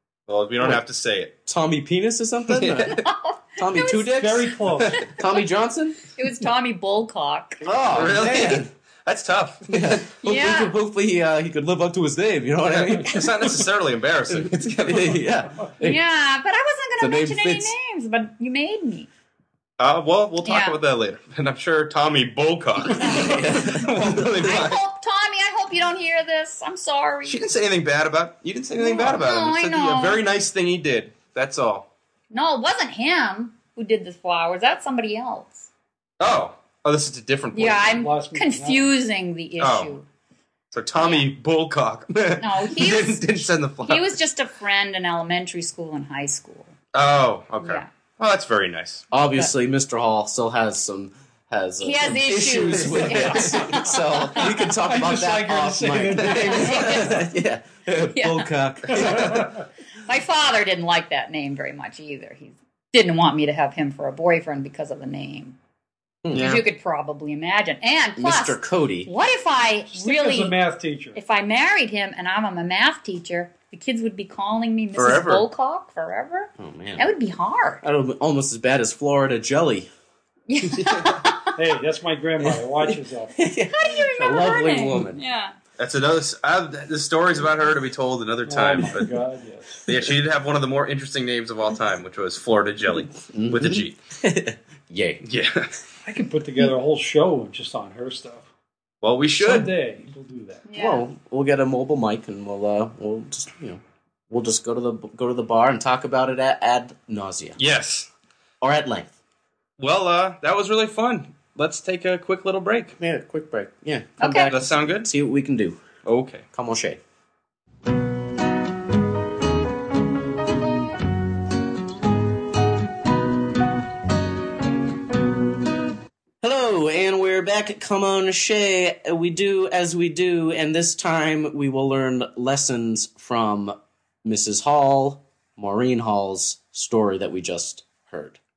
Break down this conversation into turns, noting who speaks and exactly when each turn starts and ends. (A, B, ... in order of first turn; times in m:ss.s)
0:00.3-0:01.3 A
0:01.5-0:03.0 B
0:02.5-0:03.0 A
0:02.9-0:04.3 C
0:03.6-0:04.6 B
0:04.1-0:05.0 D
0:04.9-0:05.2 C
0:05.1-0:06.0 B
0:06.2-0:07.6 C
0:07.6-0:08.7 B
0:07.9-0:10.1 A
0:09.7-0:13.6 B
0:10.2-0:10.7 C
0:12.7-0:15.2 A
0:14.3-0:16.0 B
0:15.8-0:19.1 C
0:17.0-0:17.7 B
0:19.8-0:24.8 A
0:20.4-0:20.8 C
0:22.9-0:23.6 C
0:23.0-0:24.3 B
0:24.4-0:27.4 C
0:27.2-0:31.9 A
0:28.8-0:30.2 C
0:32.3-0:35.7 C
0:36.2-0:38.0 A
0:37.5-0:40.1 C
0:37.8-0:38.9 D
0:39.6-0:40.0 A
0:40.7-0:44.2 A
0:41.0-0:41.3 C
0:42.4-0:46.7 C
0:46.9-0:49.0 A
0:47.6-0:47.9 C
0:49.1-0:59.5 B
0:51.8-0:54.6 C
0:52.4-0:53.6 A
0:54.4-0:57.2 D
0:56.2-0:57.3 C
0:58.1-0:59.1 C
0:59.0-0:59.4 A
1:00.1-1:05.6 C
1:06.2-1:06.6 B
1:06.3-1:06.6 A
1:06.3-1:10.6 C
1:08.2-1:09.1 B
1:09.8-1:11.2 D
1:11.2-1:17.8 C
1:15.0-1:15.4 A
1:15.0-1:15.4 B
1:16.6-1:17.1 B
1:17.8-1:19.9 B
1:20.5-1:21.5 C
1:20.8-1:21.2 A
1:21.6-1:23.4 D
1:22.5-1:25.2 B
1:23.7-1:25.6 C
1:25.8-1:29.1 A
1:28.5-1:29.8 D
1:29.9-1:34.0 A
1:33.3-1:35.2 B
1:35.2-1:35.7 A
1:36.0-1:38.5 D
1:39.0-1:39.7 A
1:39.4-1:40.6 D
1:40.7-1:41.1 C
1:40.8-1:47.6 B
1:47.6-1:48.1 A
1:48.6-1:49.1 B
1:49.8-1:53.0 A
1:53.0-1:55.8 B
1:54.2-1:54.5 C
1:54.5-1:55.1 A
1:56.0-1:56.4 A
1:56.5-1:57.0 B
2:06.4-2:18.4 B